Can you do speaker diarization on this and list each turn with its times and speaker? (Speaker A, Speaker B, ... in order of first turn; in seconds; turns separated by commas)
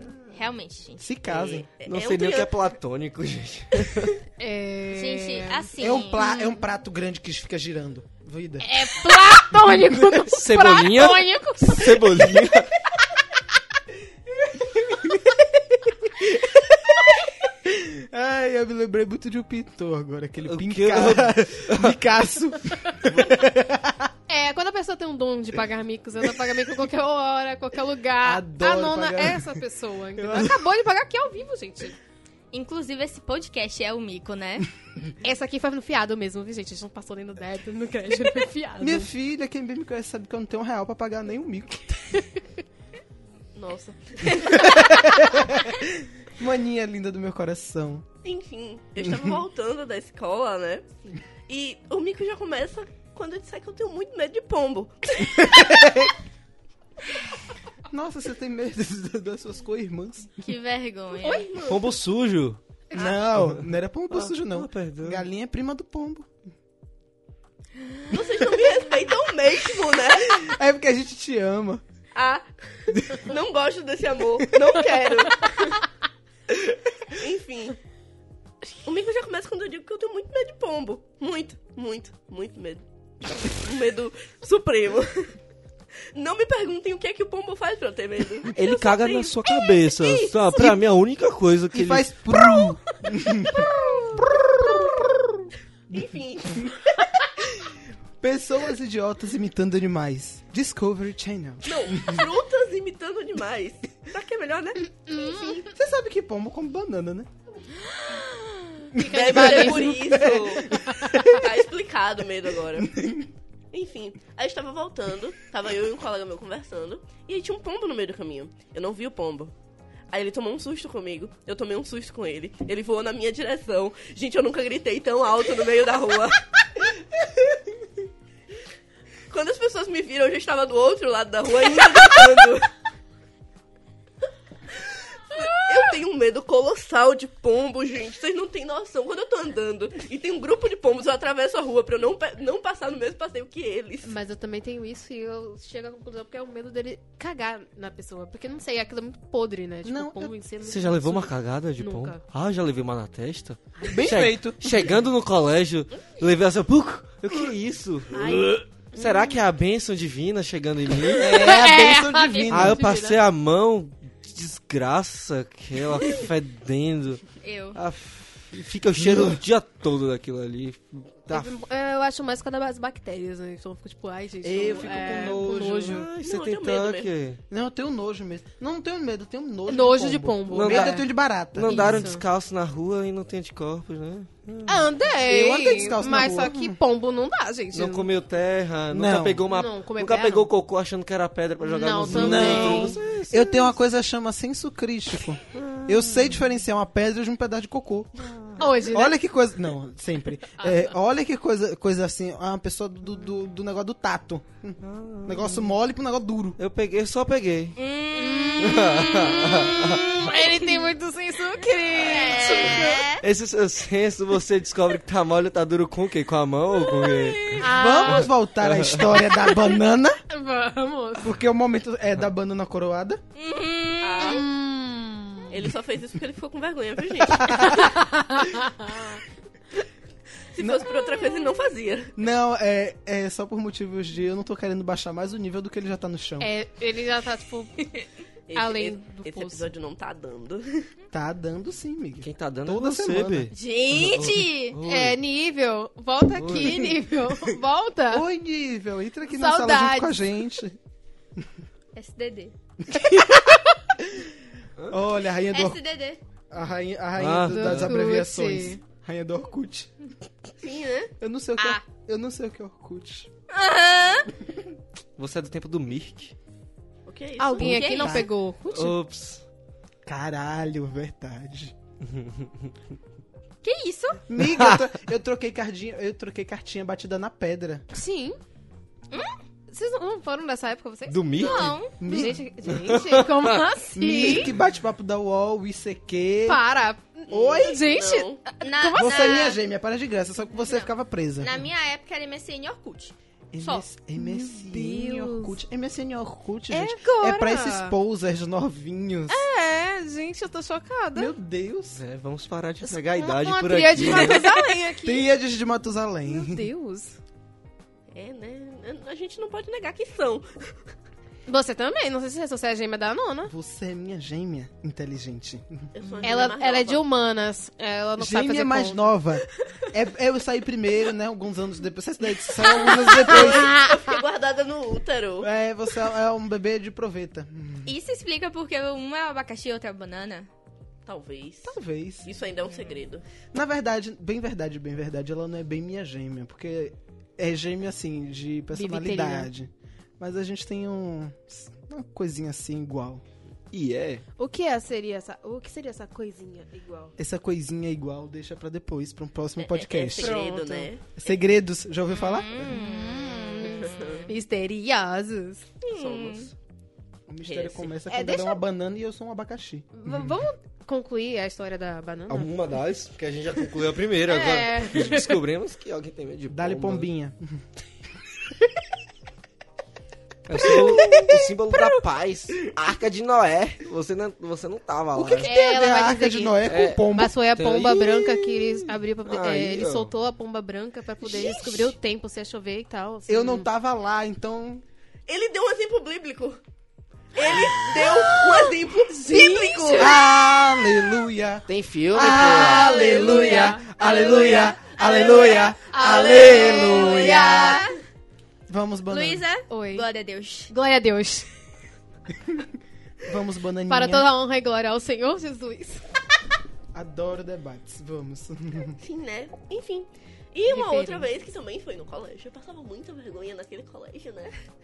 Speaker A: 0.3-1.1, Speaker B: 1.0-1.7, Speaker C: 1.3-2.5, Speaker D: 1.8-4.2, Speaker E: 4.4-6.3, Speaker A: 4.9-6.5, Speaker B: 5.8-8.7, Speaker E: 8.6-12.2, Speaker D: 10.3-12.7, Speaker B: 14.4-24.1, Speaker D: 20.4-22.0, Speaker E: 24.3-32.0, Speaker B: 28.2-29.6, Speaker B: 30.2-30.6, Speaker A: 32.5-34.7, Speaker E: 35.2-39.1, Speaker B: 38.8-42.2, Speaker C: 43.5-45.0, Speaker B: 44.4-48.0, Speaker C: 48.2-50.9, Speaker B: 49.0-49.4, Speaker C: 51.5-55.8, Speaker B: 55.4-56.1, Speaker B: 57.9-60.5, Speaker A: 60.4-61.5, Speaker C: 61.1-62.0, Speaker D: 61.6-62.6, Speaker B: 62.9-66.3, Speaker C: 62.9-63.2, Speaker D: 63.4-65.3, Speaker C: 68.1-70.5, Speaker B: 70.0-71.8, Speaker C: 72.1-75.8, Speaker C: 76.5-77.8, Speaker C: 78.8-85.4, Speaker C: 86.1-90.4, Speaker D: 88.5-92.2, Speaker B: 90.5-90.8, Speaker B: 91.7-96.0, Speaker C: 93.5-95.0, Speaker C: 95.9-97.2, Speaker B: 98.2-102.3, Speaker C: 101.6-105.6, Speaker E: 105.1-105.7, Speaker B: 105.6-107.3, Speaker E: 108.9-110.2, Speaker C: 109.0-113.0, Speaker B: 109.0-111.5, Speaker E: 110.7-111.2, Speaker B: 112.8-113.3, Speaker C: 113.7-119.5, Speaker C: 120.1-126.4, Speaker C: 129.3-132.7, Speaker C: 135.3-144.2, Speaker E: 144.0-152.2, Speaker B: 149.8-150.3, Speaker D: 150.6-161.6, Speaker E: 153.8-154.2, Speaker B: 153.9-154.6, Speaker E: 158.1-159.2, Speaker B: 161.2-162.8, Speaker E: 161.2-163.2, Speaker D: 162.5-171.6, Speaker A: 167.4-167.8, Speaker E: 171.3-176.1, Speaker D: 174.4-177.4, Speaker B: 174.6-175.7, Speaker C: 176.2-177.1, Speaker B: 177.5-182.1, Speaker E: 179.7-181.1, Speaker D: 180.5-184.9, Speaker E: 181.6-182.2, Speaker E: 184.7-188.1, Speaker B: 185.3-186.8, Speaker D: 187.7-193.8, Speaker B: 188.9-189.5, Speaker E: 189.5-190.5, Speaker E: 191.6-193.0, Speaker B: 192.1-198.3, Speaker D: 195.5-196.4, Speaker D: 198.2-198.6, Speaker E: 198.6-199.2, Speaker B: 198.9-206.6, Speaker E: 200.6-200.9, Speaker D: 204.8-205.7, Speaker D: 206.6-207.8, Speaker A: 207.8-210.6, Speaker E: 208.2-213.0, Speaker D: 208.6-210.1, Speaker A: 212.0-213.2, Speaker D: 212.7-217.7, Speaker A: 216.9-217.6, Speaker E: 217.6-218.3, Speaker B: 217.6-220.2, Speaker D: 218.6-219.2, Speaker E: 220.3-221.3, Speaker B: 221.2-223.2, Speaker A: 223.4-224.5, Speaker C: 224.0-224.5, Speaker E: 224.3-225.5, Speaker C: 225.5-228.0, Speaker B: 227.2-227.9, Speaker E: 228.0-229.2, Speaker C: 230.5-232.2, Speaker B: 230.6-230.9, Speaker B: 232.2-236.5, Speaker E: 236.4-239.7, Speaker C: 238.5-240.9, Speaker B: 241.1-243.5, Speaker D: 242.2-245.2, Speaker A: 243.5-244.8, Speaker E: 244.8-248.3, Speaker D: 246.4-246.9, Speaker B: 246.6-246.9, Speaker B: 248.1-250.8, Speaker E: 249.3-250.5, Speaker A: 251.9-252.5, Speaker B: 252.9-254.3, Speaker B: 254.9-255.8, Speaker A: 255.5-256.2, Speaker B: 256.5-259.9, Speaker D: 257.2-258.0, Speaker E: 257.5-258.8, Speaker C: 260.6-261.1, Speaker B: 261.2-263.3, Speaker E: 261.6-261.8, Speaker A: 263.5-264.3, Speaker D: 265.2-266.3, Speaker C: 267.1-267.8, Speaker E: 267.4-269.0, Speaker B: 267.6-268.3, Speaker A: 267.6-268.3, Speaker D: 268.7-269.4, Speaker B: 270.1-271.8, Speaker D: 272.0-272.7, Speaker A: 273.6-274.2, Speaker B: 274.3-277.9, Speaker D: 274.4-274.8, Speaker E: 277.9-278.4, Speaker A: 279.1-279.4, Speaker E: 279.7-284.5, Speaker D: 281.1-281.8, Speaker A: 281.4-282.0, Speaker B: 282.0-282.4, Speaker D: 282.7-283.6, Speaker B: 283.9-286.6, Speaker E: 286.5-289.6, Speaker C: 287.3-288.5, Speaker B: 287.3-287.8, Speaker A: 288.6-289.6, Speaker B: 289.0-291.6, Speaker A: 290.6-290.9, Speaker A: 291.4-293.8, Speaker B: 293.5-299.4, Speaker E: 294.2-295.6, Speaker E: 296.7-298.0, Speaker E: 299.3-301.3, Speaker B: 301.1-302.0, Speaker D: 301.9-304.5, Speaker E: 302.8-305.3, Speaker B: 305.0-306.6, Speaker E: 306.3-307.2, Speaker C: 308.1-310.8, Speaker E: 311.5-313.5, Speaker B: 313.5-315.9, Speaker C: 315.9-317.0, Speaker E: 316.2-319.1, Speaker B: 318.2-323.8, Speaker C: 322.6-325.5, Speaker E: 322.8-324.0, Speaker B: 325.4-327.9, Speaker A: 327.9-330.5, Speaker C: 331.1-333.2, Speaker B: 331.6-332.3, Speaker B: 333.5-343.2, Speaker E: 338.7-339.5, Speaker D: 343.7-344.2, Speaker E: 344.4-347.1, Speaker B: 347.2-352.5, Speaker C: 349.6-351.0, Speaker E: 350.2-350.8, Speaker A: 352.1-354.3, Speaker E: 352.7-355.7, Speaker C: 353.7-354.3, Speaker A: 355.8-356.5, Speaker C: 355.9-356.5, Speaker B: 357.3-360.3, Speaker C: 357.4-357.9, Speaker E: 358.1-358.6, Speaker E: 359.9-362.8, Speaker D: 362.3-367.1, Speaker E: 364.3-365.4, Speaker B: 366.5-367.6, Speaker D: 370.5-375.5, Speaker B: 370.5-371.4, Speaker B: 375.1-377.3, Speaker E: 375.4-383.7, Speaker D: 376.7-380.1, Speaker B: 383.3-384.8, Speaker C: 385.3-386.6, Speaker C: 387.3-390.3, Speaker E: 388.0-390.2, Speaker B: 389.9-397.9, Speaker D: 391.7-393.0, Speaker E: 392.4-397.8, Speaker C: 393.0-395.7, Speaker A: 396.4-397.9, Speaker B: 398.7-399.4, Speaker A: 399.1-400.7, Speaker E: 399.7-400.1, Speaker E: 400.7-401.5, Speaker B: 403.2-404.3, Speaker E: 403.9-406.1, Speaker B: 406.9-409.0, Speaker C: 409.0-414.5, Speaker E: 410.6-411.4